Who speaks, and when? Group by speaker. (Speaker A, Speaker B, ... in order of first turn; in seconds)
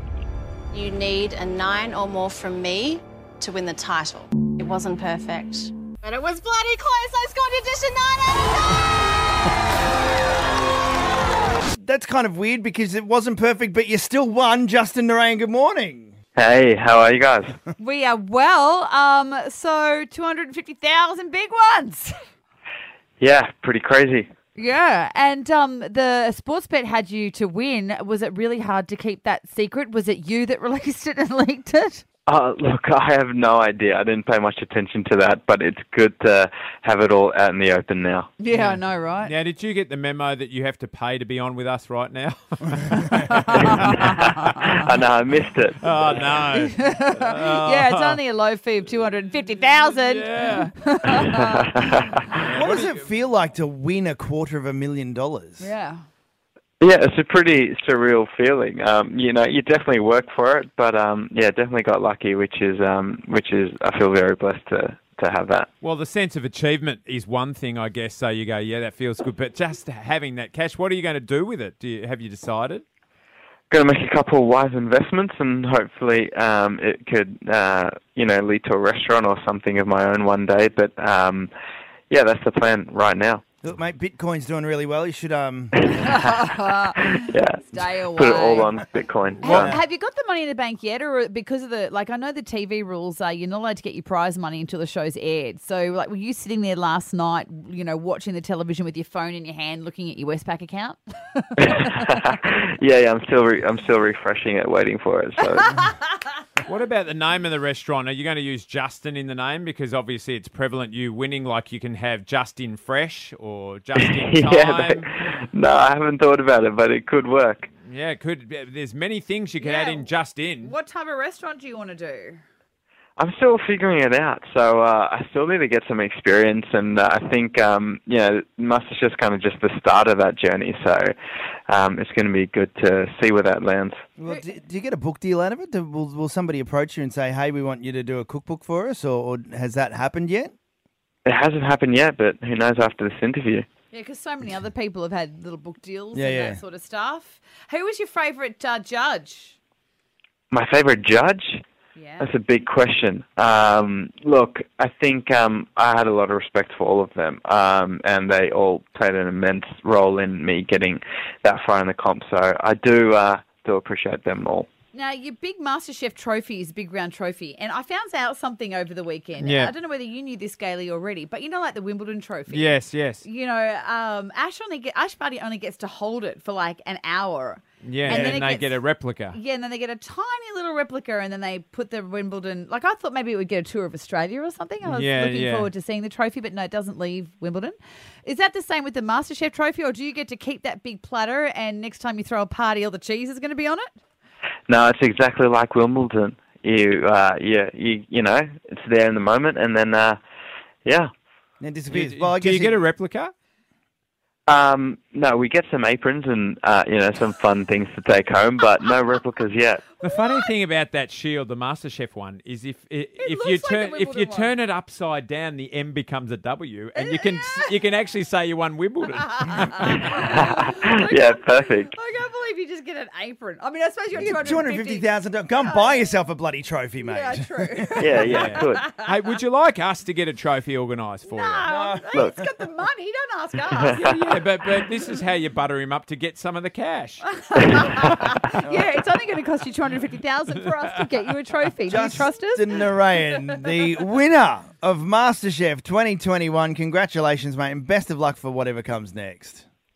Speaker A: 0.7-9.0
Speaker B: 11.6-16.1, 52.5-55.7, 83.6-85.8, 89.4-89.8, 134.2-140.5, 146.1-146.6, 178.1-178.3, 201.6-202.8, 224.1-228.1, 231.7-232.4, 238.6-239.0, 241.9-249.7
Speaker C: 16.4-17.6, 23.2-24.3, 32.3-38.3, 44.6-45.8, 51.3-52.0, 56.8-65.7, 73.7-81.5, 82.1-83.4, 85.9-86.5, 87.2-89.7, 101.6-105.9, 114.0-117.7, 123.2-131.1, 131.7-134.0, 141.2-143.7, 150.5-151.6, 152.2-164.7, 194.7-200.2, 200.8-201.1, 204.5-209.8, 220.1-221.9, 228.0-228.8
Speaker D: 17.8-22.1, 24.5-32.0, 38.4-39.3, 42.9-44.6, 46.5-51.6, 55.6-56.0, 85.9-88.7, 89.4-101.9, 119.6-122.4, 143.9-149.6, 151.9-152.3, 164.9-172.7, 173.2-193.9, 210.0-210.5, 213.2-214.5, 216.9-217.7, 219.3-226.0, 227.0-229.0, 231.2-234.1, 237.2-242.8
Speaker E: 38.5-44.7, 45.8-48.2, 49.7-51.2, 52.3-53.1, 65.8-72.8, 89.4-89.7, 106.6-115.0, 117.8-120.7, 169.4-169.7, 172.5-173.2, 177.8-179.4, 184.8-185.7, 201.9-203.3, 210.0-220.2, 228.2-231.7, 234.0-237.8